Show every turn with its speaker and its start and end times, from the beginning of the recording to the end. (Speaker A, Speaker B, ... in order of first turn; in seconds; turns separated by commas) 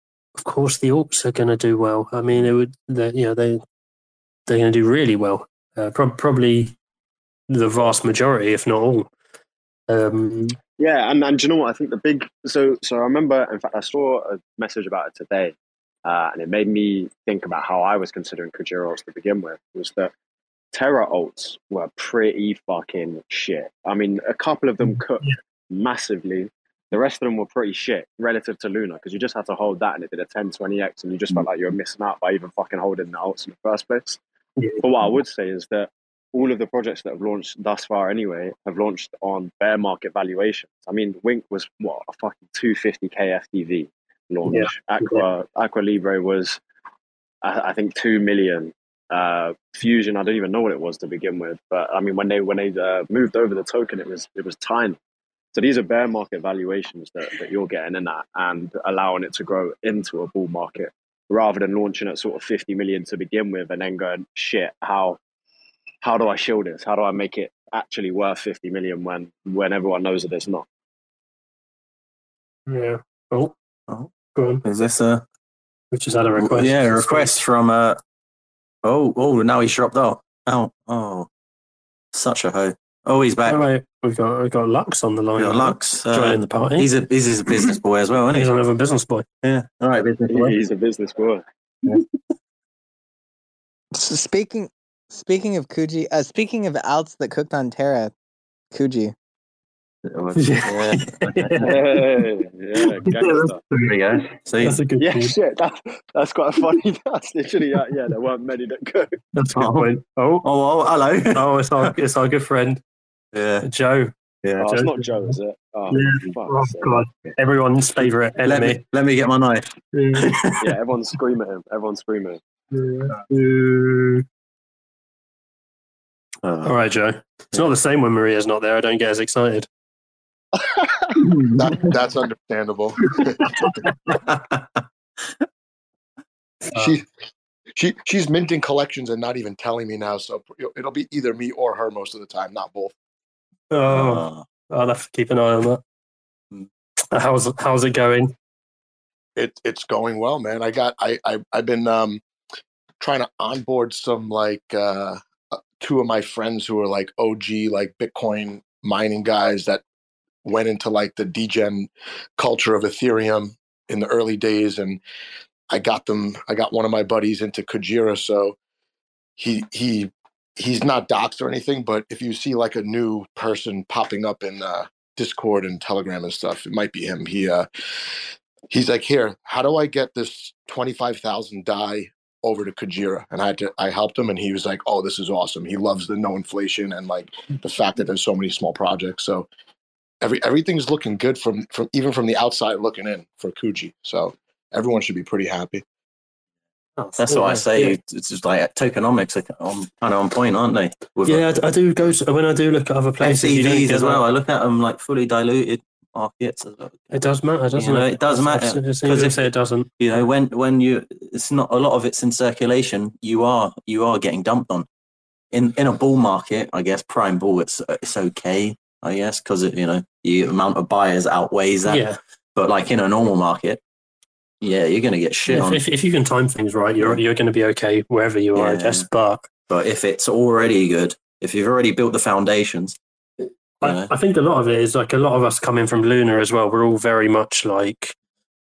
Speaker A: 0.3-3.6, Speaker A: 4.5-6.8, Speaker A: 7.5-9.1, Speaker A: 9.9-10.6, Speaker B: 10.8-20.1, Speaker B: 20.7-34.2, Speaker A: 34.6-34.8, Speaker B: 34.8-46.6, Speaker A: 44.5-45.2, Speaker B: 47.4-55.0, Speaker B: 55.5-65.2, Speaker B: 66.0-70.7, Speaker A: 72.7-73.5, Speaker A: 74.3-74.6, Speaker C: 74.6-75.2, Speaker A: 75.9-77.3, Speaker C: 76.4-78.0, Speaker C: 78.8-81.3, Speaker C: 82.1-83.6, Speaker A: 83.5-86.9, Speaker C: 85.4-88.5, Speaker A: 88.3-89.2, Speaker C: 89.4-90.5, Speaker B: 90.3-91.4, Speaker D: 93.9-98.1, Speaker D: 98.7-99.1, Speaker C: 100.0-101.9, Speaker A: 100.3-101.9, Speaker B: 101.6-103.6, Speaker C: 103.0-104.8, Speaker A: 103.0-103.9, Speaker A: 104.6-105.3, Speaker B: 105.0-109.2, Speaker A: 109.3-110.5, Speaker C: 109.5-111.9, Speaker A: 111.3-112.8, Speaker C: 113.3-113.7, Speaker A: 113.6-114.1, Speaker C: 114.4-114.7, Speaker B: 114.6-117.0, Speaker A: 114.6-115.3, Speaker A: 115.9-118.8, Speaker C: 118.4-120.8, Speaker A: 119.9-120.3, Speaker B: 120.6-122.4, Speaker A: 122.7-124.2, Speaker C: 126.4-126.7, Speaker A: 126.6-129.7, Speaker E: 131.5-133.6, Speaker C: 134.1-134.6, Speaker E: 136.7-137.1, Speaker E: 137.8-142.9, Speaker A: 143.7-145.8, Speaker C: 143.9-144.4, Speaker A: 147.1-148.3, Speaker E: 149.3-152.2, Speaker E: 153.0-155.2, Speaker E: 155.8-159.8, Speaker E: 160.4-165.0, Speaker E: 165.7-168.5, Speaker E: 169.4-178.1, Speaker E: 178.7-189.5, Speaker E: 190.2-195.8, Speaker A: 197.0-198.0, Speaker C: 197.2-201.6, Speaker A: 201.2-204.2, Speaker C: 203.2-214.9, Speaker A: 207.1-209.9, Speaker C: 215.5-222.0, Speaker A: 221.8-222.2, Speaker C: 222.6-223.8, Speaker C: 224.6-225.8, Speaker A: 225.5-229.4, Speaker C: 228.5-229.1, Speaker C: 229.7-233.0, Speaker A: 233.8-238.1, Speaker C: 233.8-234.1